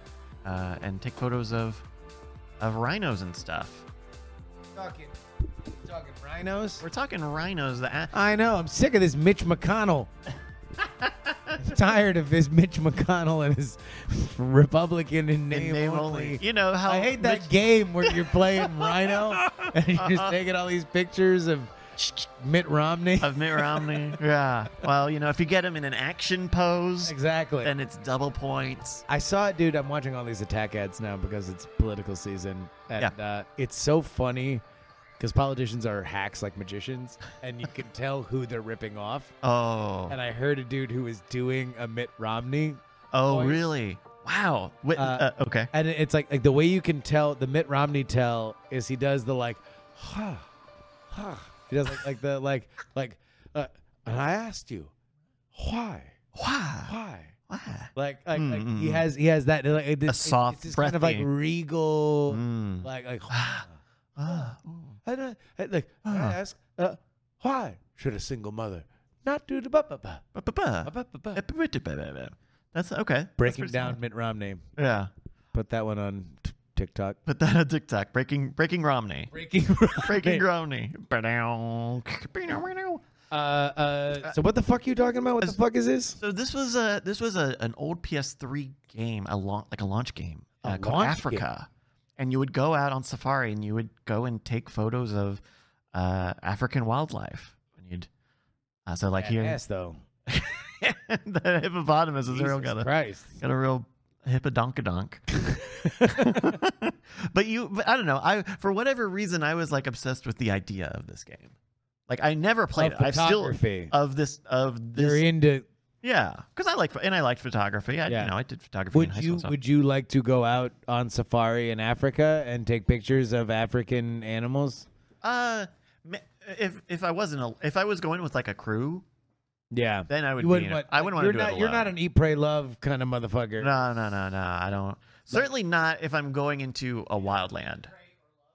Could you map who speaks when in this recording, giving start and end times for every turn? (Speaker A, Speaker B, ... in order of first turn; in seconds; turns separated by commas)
Speaker A: 0.5-1.9, Speaker A: 2.6-3.9, Speaker B: 4.7-5.2, Speaker B: 5.7-6.8, Speaker A: 6.8-8.2, Speaker B: 8.1-10.1, Speaker B: 11.6-24.0, Speaker A: 15.5-20.4, Speaker A: 23.2-29.1, Speaker B: 27.0-27.7, Speaker B: 29.1-34.6, Speaker B: 35.2-39.4, Speaker A: 39.4-40.2, Speaker B: 40.1-43.6, Speaker A: 43.1-45.7, Speaker B: 45.0-50.5, Speaker B: 51.1-54.9, Speaker B: 55.5-56.2, Speaker A: 56.4-56.9, Speaker B: 56.9-57.3, Speaker A: 57.5-59.1, Speaker B: 58.0-63.7, Speaker A: 60.1-61.3, Speaker A: 62.3-65.0, Speaker B: 64.3-64.5, Speaker B: 65.0-70.2, Speaker A: 66.0-66.4, Speaker A: 70.3-74.0, Speaker B: 70.8-71.4, Speaker B: 73.4-74.7, Speaker A: 74.8-75.1, Speaker B: 75.5-77.2, Speaker A: 77.3-79.3, Speaker B: 79.3-80.5, Speaker A: 79.9-83.0, Speaker B: 83.3-86.2, Speaker A: 86.2-91.7, Speaker B: 90.6-91.5, Speaker A: 92.2-95.4, Speaker A: 95.9-98.1, Speaker A: 98.9-99.6, Speaker B: 99.2-100.0, Speaker A: 100.3-111.5, Speaker B: 102.3-103.3, Speaker B: 105.5-106.6, Speaker A: 112.1-115.3, Speaker B: 112.8-113.9, Speaker B: 115.0-115.7, Speaker A: 116.0-119.5, Speaker B: 118.1-118.3, Speaker B: 118.9-124.9, Speaker A: 125.2-129.1, Speaker B: 129.7-133.7, Speaker A: 130.1-131.9, Speaker A: 133.6-137.9